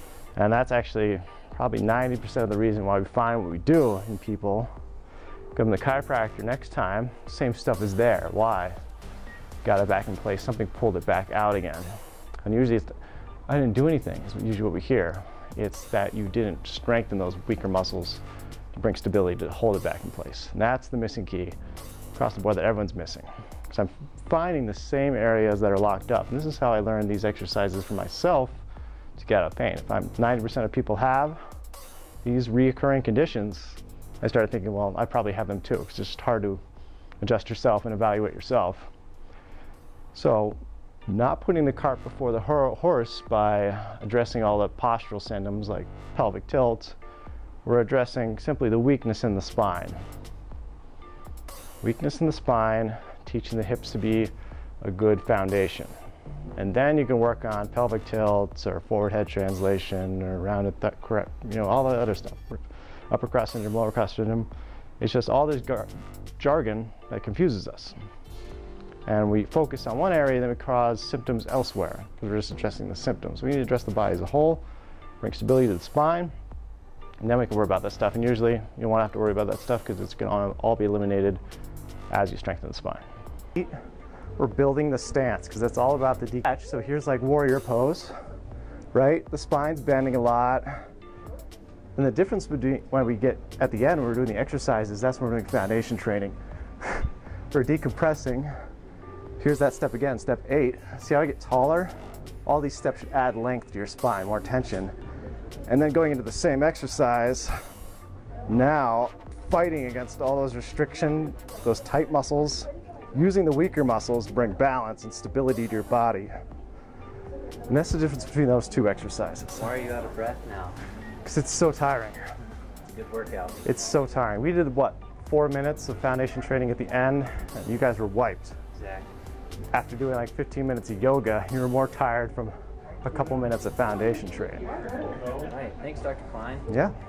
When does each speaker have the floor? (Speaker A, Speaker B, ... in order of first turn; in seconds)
Speaker A: 0.3-4.7, 5.5-8.8, 9.6-12.9, 13.5-18.2, 18.7-21.6, 22.1-28.6, 29.1-31.4, 32.2-36.6, 37.2-38.9, 40.1-47.0, 47.6-50.0, 51.8-55.9, 56.5-68.0, 69.1-74.6, 75.2-76.3, 77.2-81.4, 82.1-83.0, 84.4-88.1, 88.9-90.7, 92.0-98.5, 99.4-101.9, 102.4-104.9, 105.7-107.5, 108.5-116.3, 117.7-119.7, 121.2-122.2, 123.6-128.6, 129.7-134.7, 136.7-136.9
Speaker B: 119.6-120.8, 122.9-123.6, 128.8-129.1, 135.4-136.7